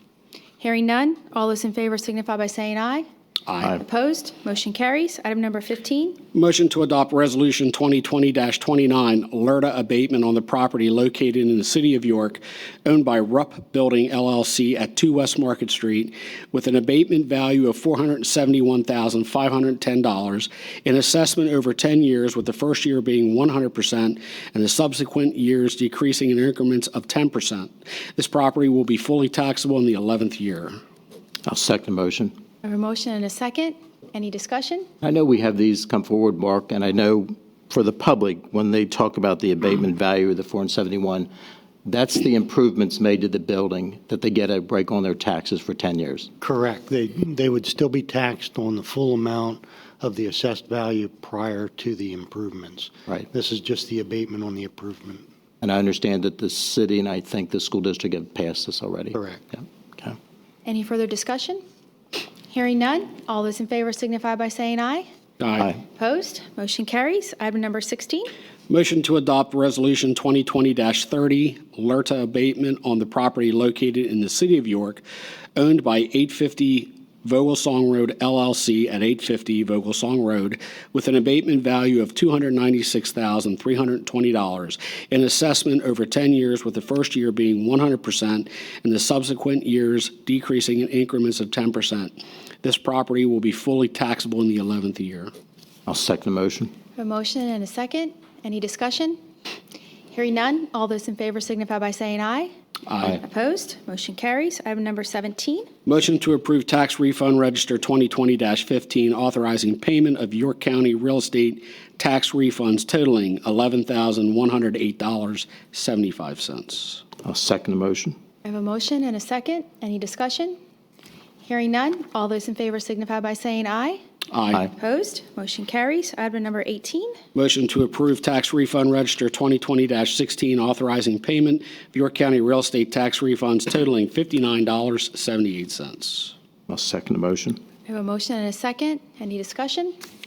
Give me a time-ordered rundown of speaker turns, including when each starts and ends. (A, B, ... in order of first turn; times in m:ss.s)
0:00.6-0:03.0 A
0:03.5-0:03.7 B
0:03.7-0:06.2 A
0:06.3-0:30.7 B
0:31.4-0:32.3 C
0:32.6-0:34.9 A
0:35.0-0:41.3 C
0:41.8-0:46.3 C
0:46.4-0:55.2 D
0:55.6-1:00.2 C
0:59.1-0:59.4 D
1:00.6-1:01.6 A
1:02.5-1:05.0 A
1:05.4-1:05.7 B
1:06.0-1:08.3 A
1:08.7-1:15.0 B
1:15.6-1:35.3 B
1:35.9-1:36.7 C
1:37.0-1:39.2 A
1:40.1-1:42.5 A
1:42.9-1:43.2 B
1:43.0-1:45.7 A
1:45.8-1:57.0 B
1:57.2-1:58.2 C
1:58.4-2:00.6 A
2:01.5-2:04.0 A
2:04.3-2:04.7 B
2:04.7-2:07.1 A
2:07.3-2:16.3 B
2:16.7-2:17.6 C
2:17.9-2:19.9 A